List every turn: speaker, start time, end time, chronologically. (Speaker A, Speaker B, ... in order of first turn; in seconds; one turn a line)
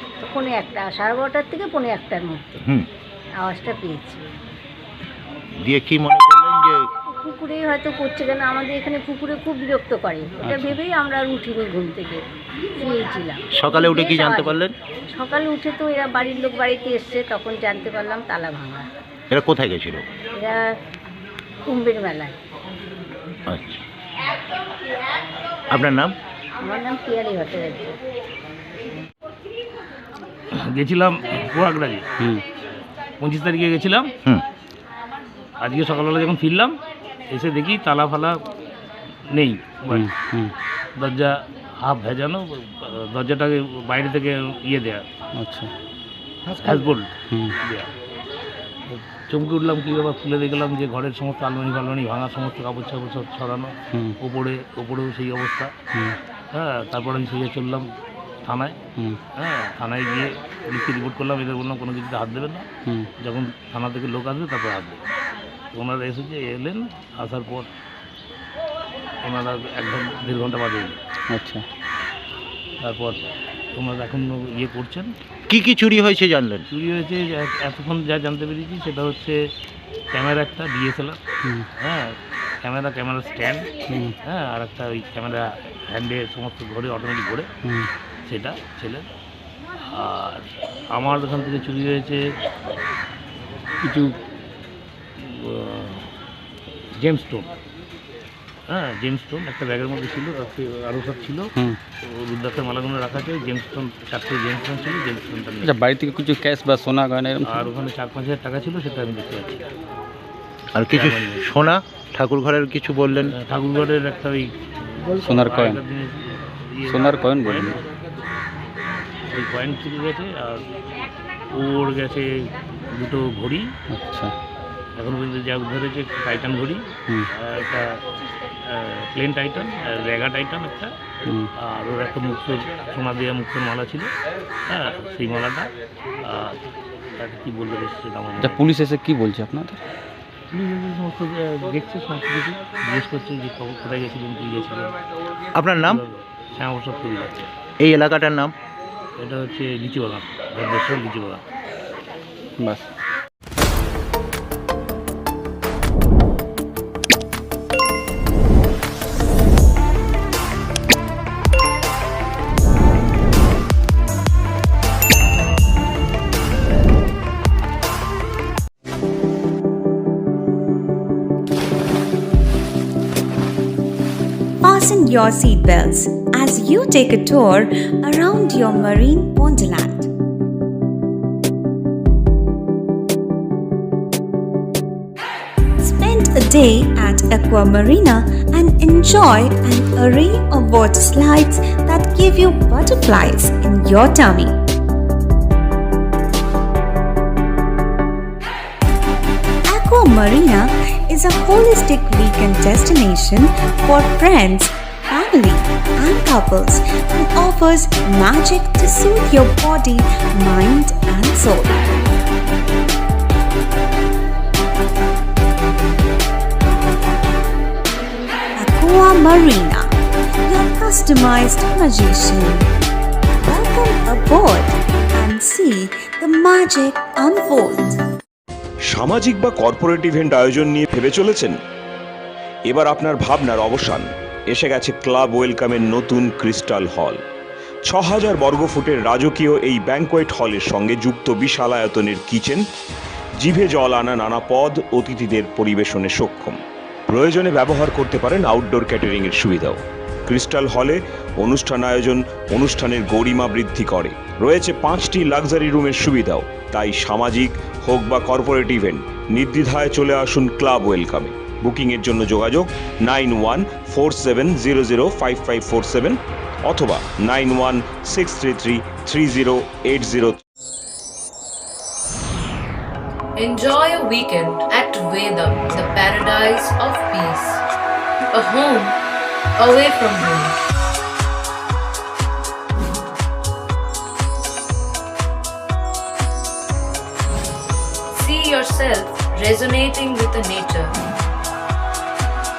Speaker A: 0.2-2.6
Speaker A: 3.4-4.2
Speaker B: 5.6-6.8
Speaker A: 7.1-12.2
Speaker C: 10.4-10.8
Speaker A: 12.8-14.6
Speaker B: 13.6-14.7
Speaker A: 15.1-18.9
Speaker B: 19.3-20.0
Speaker A: 20.3-20.8
Speaker A: 21.7-22.4
Speaker B: 23.5-23.8
Speaker B: 25.7-26.1
Speaker A: 26.6-28.0
Speaker D: 30.6-32.1
Speaker D: 33.2-34.1
Speaker D: 35.6-36.8
Speaker D: 37.3-38.4
Speaker D: 39.3-40.1
Speaker C: 39.9-40.5
Speaker D: 41.0-45.1
Speaker C: 45.4-45.7
Speaker D: 46.6-47.9
Speaker D: 48.9-55.7
Speaker D: 56.5-57.9
Speaker D: 58.4-58.8
Speaker D: 59.4-62.7
Speaker D: 63.2-65.0
Speaker D: 65.7-67.7
Speaker D: 69.2-71.0
Speaker C: 71.3-71.6
Speaker D: 72.8-73.2
Speaker D: 73.7-75.1
Speaker B: 75.5-76.6
Speaker D: 76.7-79.4
Speaker D: 80.1-81.2
Speaker D: 81.8-83.7
Speaker D: 84.2-87.5
Speaker D: 88.2-89.1
Speaker D: 89.9-92.2
Speaker D: 93.8-94.2
Speaker D: 95.2-96.1
Speaker D: 97.0-97.5
Speaker D: 98.7-101.5
Speaker D: 102.0-105.7
Speaker C: 105.6-107.7
Speaker D: 107.5-109.7
Speaker B: 110.8-113.3
Speaker D: 110.9-111.5
Speaker D: 113.3-114.5
Speaker D: 115.1-117.8
Speaker C: 115.2-115.8
Speaker C: 116.9-117.8
Speaker D: 119.3-120.6
Speaker D: 121.5-123.7
Speaker C: 123.9-124.3
Speaker D: 125.0-128.0
Speaker D: 128.7-130.9
Speaker D: 131.6-134.1
Speaker D: 134.7-135.7
Speaker D: 136.2-136.6
Speaker D: 137.2-138.6
Speaker C: 138.4-139.8
Speaker D: 140.5-144.9
Speaker B: 145.6-146.0
Speaker D: 145.8-147.5
Speaker B: 147.8-148.5
Speaker D: 149.2-151.4
Speaker C: 152.6-152.9
Speaker E: 174.6-180.1
Speaker E: 185.8-194.5
Speaker E: 199.7-211.9
Speaker E: 218.6-219.9
Speaker E: 220.5-222.7
Speaker E: 223.4-228.0
Speaker F: 228.9-231.6
Speaker F: 232.7-237.2
Speaker F: 237.8-242.6
Speaker F: 243.4-246.6
Speaker F: 247.1-270.4
Speaker G: 273.4-277.6
Speaker G: 278.3-279.0
Speaker G: 279.6-280.6
Speaker G: 288.1-290.9